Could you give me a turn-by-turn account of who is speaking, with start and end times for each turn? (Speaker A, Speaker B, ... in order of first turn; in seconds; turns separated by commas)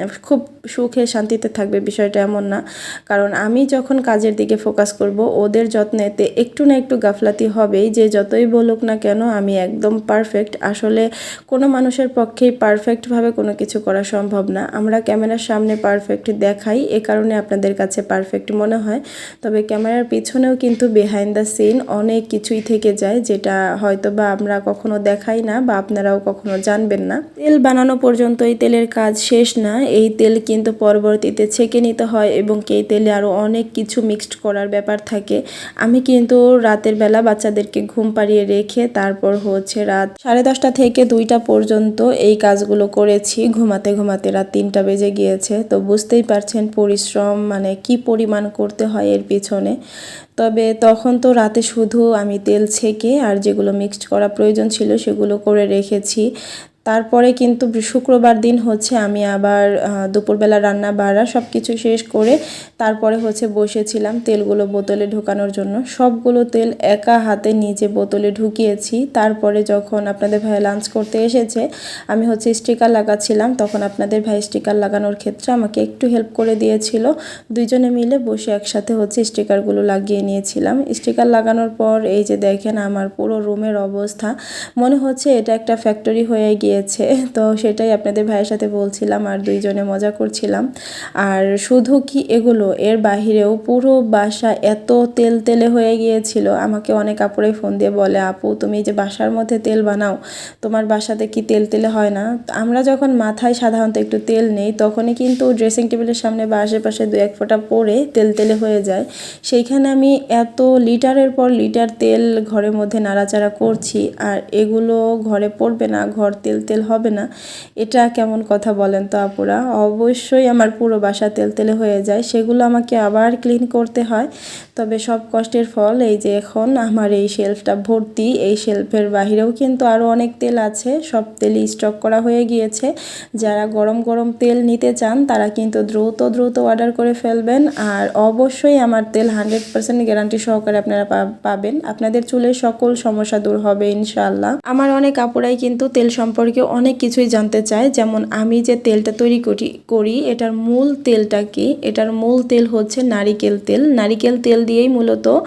Speaker A: 0.2-49.8, Speaker A: 50.4-56.2, Speaker A: 56.9-90.7, Speaker A: 91.2-117.3, Speaker A: 117.8-155.3